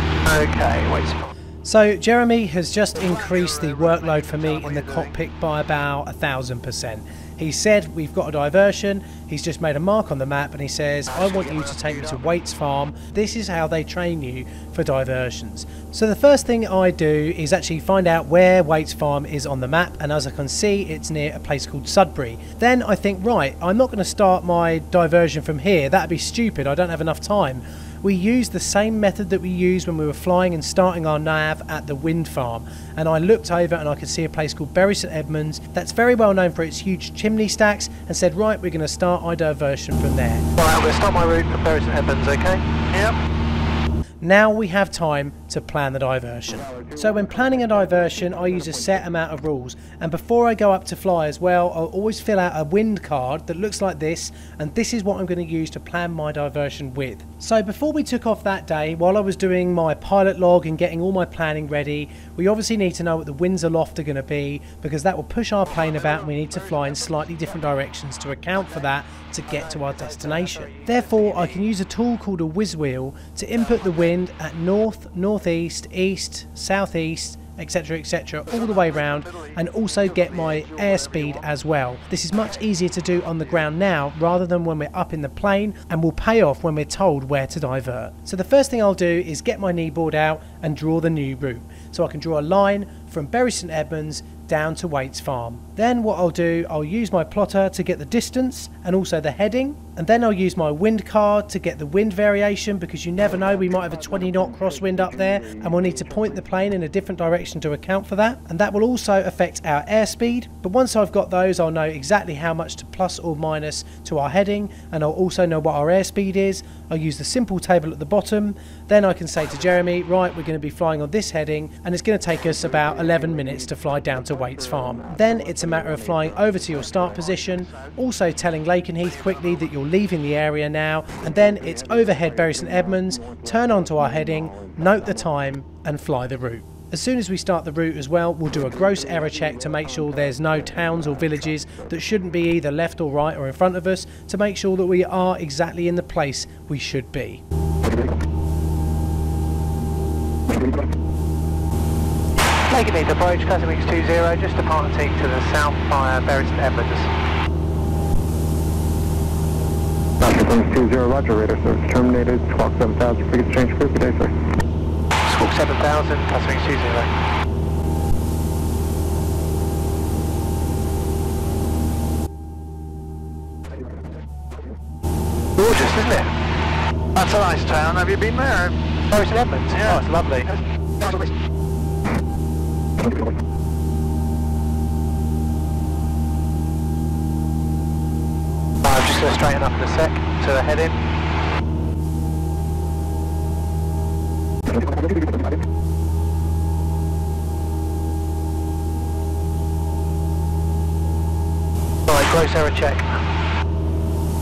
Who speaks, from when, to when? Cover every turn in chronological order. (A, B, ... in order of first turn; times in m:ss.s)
0:00.3-0:01.3 A
0:01.6-0:40.4 B
0:03.0-0:05.1 C
0:11.2-0:12.0 C
0:40.6-0:42.6 A
0:42.9-0:43.2 C
0:44.2-2:27.4 B
0:46.5-0:49.2 D
1:05.7-1:07.6 C
1:09.5-1:11.7 A
1:13.6-1:14.1 C
1:18.4-1:21.5 C
1:23.2-1:23.7 C
1:43.3-1:46.5 D
2:02.4-2:07.6 D
2:07.5-2:08.0 C
2:09.0-2:09.8 C
2:11.2-2:15.3 D
2:18.6-2:22.0 D
2:32.7-2:37.1 A
2:40.2-2:44.3 D
2:45.3-2:47.1 A
2:55.6-2:56.3 A
2:57.2-2:58.8 C
2:59.1-3:00.5 A
2:59.7-3:01.3 C
3:08.8-3:11.0 A
3:22.1-3:23.2 A